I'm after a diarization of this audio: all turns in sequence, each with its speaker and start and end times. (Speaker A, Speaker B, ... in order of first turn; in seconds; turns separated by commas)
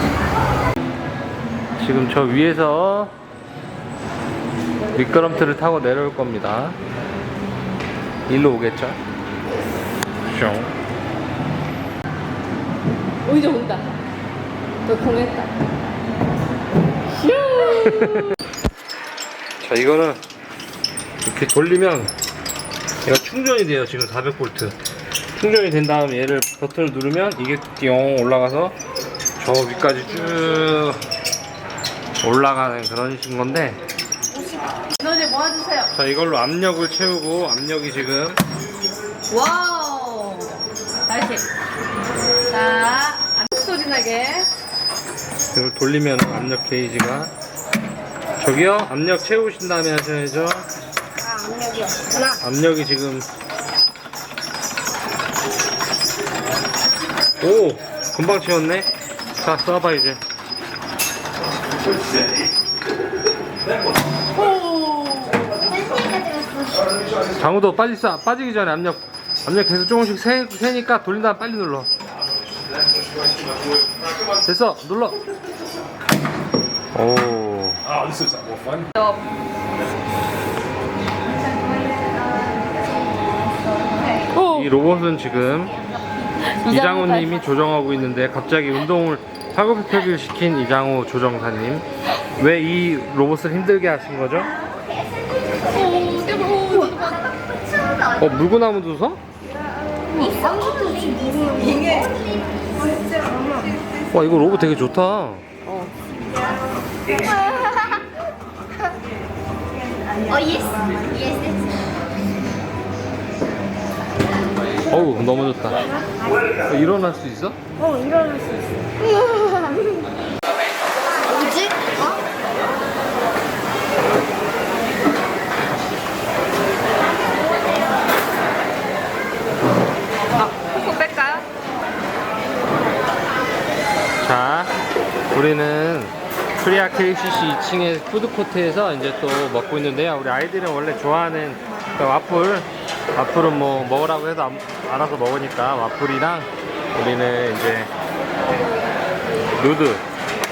Speaker A: 1.8-3.1, Speaker A: 4.9-6.8, Speaker A: 8.3-9.0, Speaker A: 10.2-10.7, Speaker B: 13.2-13.9, Speaker B: 14.8-15.5, Speaker B: 17.1-18.4, Speaker A: 17.6-18.3, Speaker A: 19.6-20.2, Speaker A: 21.2-22.1, Speaker A: 23.0-24.8, Speaker A: 25.3-28.8, Speaker A: 29.4-31.0, Speaker A: 32.2-33.8, Speaker B: 34.4-35.9, Speaker A: 35.9-38.4, Speaker B: 39.3-41.4, Speaker B: 42.5-44.5, Speaker A: 45.5-47.3, Speaker A: 48.4-50.6, Speaker C: 51.3-52.3, Speaker A: 52.4-53.3, Speaker A: 57.4-60.2, Speaker B: 64.4-65.4, Speaker C: 65.5-67.0, Speaker A: 67.3-71.9, Speaker A: 74.4-75.2, Speaker A: 76.9-78.3, Speaker B: 84.3-84.7, Speaker A: 84.5-85.7, Speaker B: 86.6-87.4, Speaker A: 86.7-91.8, Speaker A: 92.4-94.5, Speaker B: 95.7-97.4, Speaker A: 98.2-99.2, Speaker C: 100.2-102.1, Speaker A: 104.1-105.4, Speaker B: 107.2-108.0, Speaker C: 110.3-111.7, Speaker A: 114.9-115.8, Speaker A: 116.7-117.6, Speaker C: 117.8-119.8, Speaker C: 121.2-122.2, Speaker B: 130.4-131.5, Speaker A: 134.2-134.7, Speaker A: 135.3-147.9, Speaker A: 149.6-150.0